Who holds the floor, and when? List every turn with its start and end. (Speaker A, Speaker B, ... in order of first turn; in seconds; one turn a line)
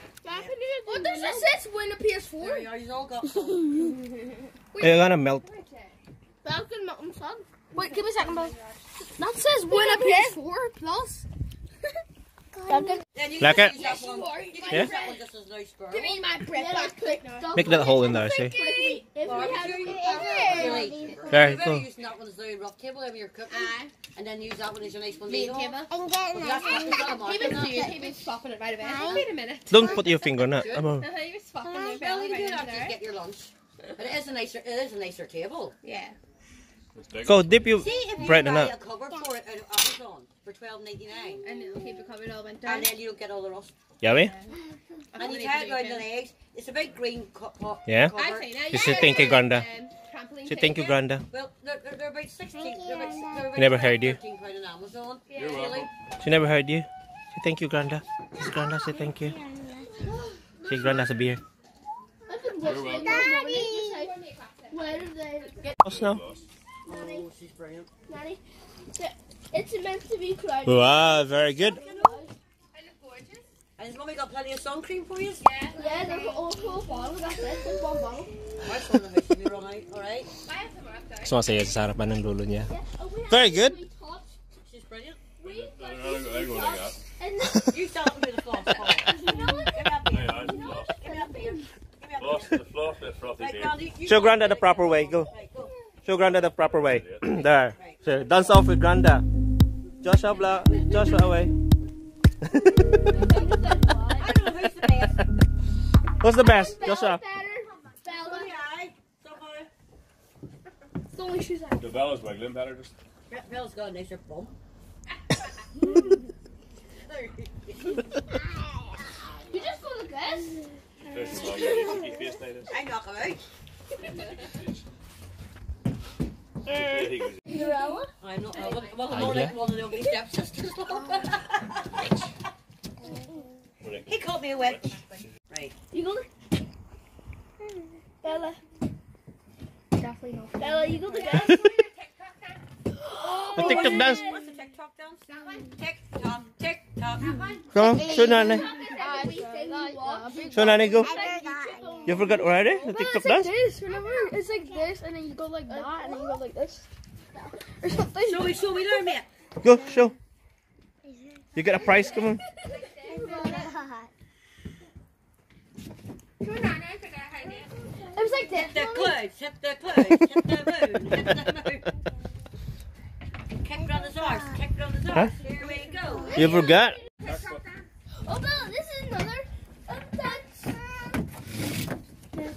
Speaker A: 0.2-2.6
Speaker B: 0.3-0.5
Speaker C: 0.3-1.6
Speaker B: 2.4-3.9
Speaker C: 4.7-6.0
Speaker D: 4.8-5.4
Speaker A: 6.4-8.5
Speaker C: 7.7-8.8
Speaker A: 9.2-11.2
Speaker C: 9.7-10.5
Speaker A: 12.7-13.0
Speaker B: 13.1-16.2
Speaker D: 13.4-13.7
Speaker C: 13.8-15.2
Speaker C: 15.9-17.5
Speaker A: 16.3-20.9
Speaker D: 17.5-18.6
Speaker B: 19.2-25.8
Speaker C: 19.8-21.1
Speaker E: 19.9-21.1
Speaker D: 21.3-21.8
Speaker C: 23.5-23.9
Speaker C: 25.3-25.9
Speaker E: 25.9-26.4
Speaker B: 26.3-27.9
Speaker C: 26.8-33.0
Speaker B: 29.0-29.3
Speaker D: 29.7-31.1
Speaker B: 31.7-35.8
Speaker C: 35.8-36.2
Speaker F: 36.9-37.7
Speaker D: 37.2-38.7
Speaker B: 37.7-41.4
Speaker C: 41.4-42.9
Speaker B: 42.6-43.7
Speaker D: 44.0-44.3
Speaker C: 44.0-44.5
Speaker C: 45.1-46.0
Speaker B: 45.2-48.8
Speaker D: 47.9-48.1
Speaker C: 48.1-51.0
Speaker D: 48.7-49.7
Speaker D: 50.5-51.2
Speaker B: 51.3-55.9
Speaker E: 52.7-53.4
Speaker D: 53.5-54.2
Speaker C: 55.3-55.6
Speaker F: 55.3-55.9
Speaker D: 56.2-59.3
Speaker E: 59.2-59.8
Speaker C: 60.0-61.0
Speaker D: 60.7-61.4
Speaker A: 62.3-64.1
Speaker C: 62.6-65.8
Speaker F: 62.6-63.1
Speaker E: 63.1-63.9
Speaker A: 64.7-65.8
Speaker D: 65.8-66.2
Speaker F: 65.9-66.4
Speaker A: 66.8-67.2
Speaker B: 66.8-67.9
Speaker A: 68.1-68.4
Speaker A: 68.9-72.3
Speaker D: 70.6-71.8
Speaker C: 71.8-72.2
Speaker C: 72.7-73.5
Speaker B: 73.8-75.5
Speaker C: 75.4-76.5
Speaker A: 75.7-78.4
Speaker B: 78.6-80.3
Speaker C: 80.4-81.5
Speaker D: 81.2-82.7
Speaker A: 82.7-84.4
Speaker D: 83.3-83.8
Speaker B: 84.6-85.2
Speaker A: 85.4-86.7
Speaker F: 85.4-87.0
Speaker A: 87.2-87.8
Speaker B: 87.7-92.6
Speaker A: 89.0-89.7
Speaker F: 90.0-91.0
Speaker A: 90.3-91.5
Speaker F: 92.2-93.8
Speaker B: 93.3-95.7
Speaker D: 94.0-95.3
Speaker D: 96.0-99.2
Speaker F: 96.6-97.2
Speaker B: 97.7-98.0
Speaker D: 100.0-101.5
Speaker C: 103.1-103.6
Speaker A: 103.2-104.2
Speaker B: 104.1-105.2
Speaker D: 106.2-107.2
Speaker A: 106.3-108.5
Speaker B: 108.0-109.7
Speaker A: 111.1-111.8
Speaker F: 111.8-112.9
Speaker B: 113.3-114.5
Speaker B: 116.9-118.1
Speaker A: 119.5-120.6
Speaker F: 121.1-122.7
Speaker A: 121.5-121.8
Speaker B: 122.7-123.4
Speaker F: 124.4-124.7
Speaker F: 126.7-127.4
Speaker A: 127.5-128.1
Speaker B: 128.2-132.0
Speaker C: 128.6-128.9
Speaker D: 129.1-129.6
Speaker A: 133.1-133.4
Speaker F: 133.8-134.9
Speaker B: 134.1-135.7
Speaker A: 135.9-136.3
Speaker A: 138.2-138.6
Speaker A: 140.0-141.6
Speaker C: 140.6-142.6
Speaker D: 141.4-141.8
Speaker A: 143.0-144.3
Speaker B: 143.5-147.8
Speaker D: 143.5-144.3
Speaker C: 145.4-145.6
Speaker C: 147.4-150.7
Speaker D: 147.7-148.7
Speaker A: 147.8-158.5
Speaker D: 150.5-151.1
Speaker E: 151.0-152.1
Speaker D: 152.0-153.5
Speaker C: 155.7-156.2
Speaker B: 158.2-159.3
Speaker D: 159.6-160.2
Speaker D: 161.6-162.4
Speaker C: 162.6-163.7
Speaker A: 163.1-164.1
Speaker C: 166.4-167.8
Speaker A: 168.1-169.1
Speaker B: 168.5-172.0
Speaker B: 173.6-176.6
Speaker C: 176.3-176.6
Speaker D: 176.3-177.0
Speaker A: 176.3-176.7
Speaker F: 177.2-177.6
Speaker A: 178.2-180.8